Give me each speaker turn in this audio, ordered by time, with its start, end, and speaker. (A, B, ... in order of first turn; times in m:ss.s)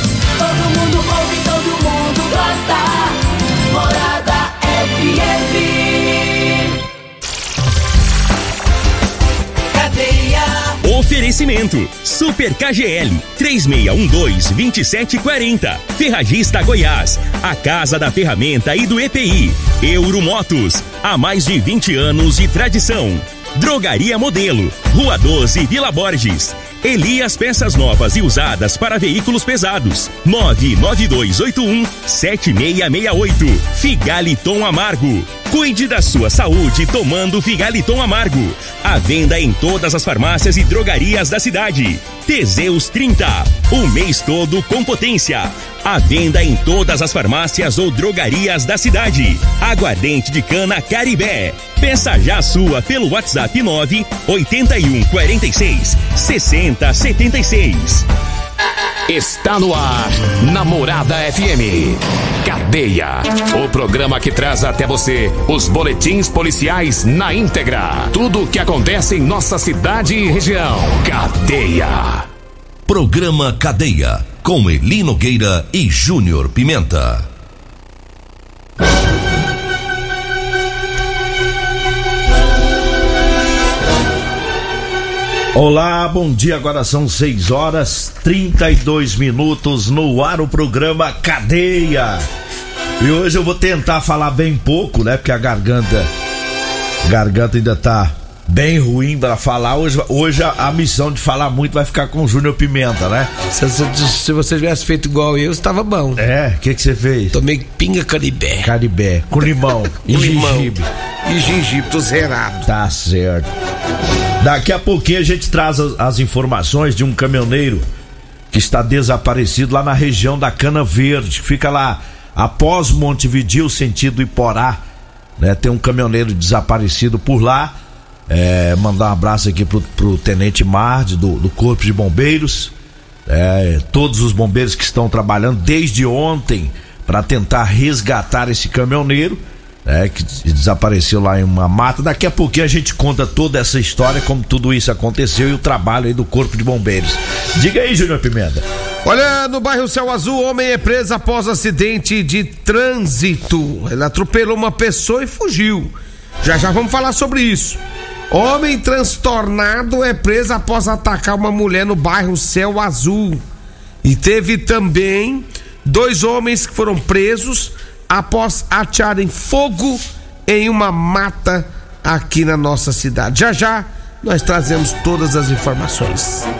0:00.4-0:06.7 A
0:09.7-0:10.8 A
0:10.8-0:58.0 B
0:59.1-1:12.2 C
1:12.9-1:17.3 D
1:25.5-1:32.2 E
1:33.0-1:36.1 E
1:37.0-1:43.3 E
1:43.5-1:46.2 F
1:46.2-1:47.4 E
1:47.3-1:48.7 F
1:48.6-1:50.9 E
1:50.0-1:52.7 F
1:52.6-1:53.5 E
1:54.4-1:57.8 E
1:58.5-2:04.8 E
2:05.4-2:07.8 E
2:08.3-2:12.7 E
2:13.3-2:28.6 E
2:29.0-2:37.8 F
2:38.3-2:43.4 F
2:44.0-2:56.5 F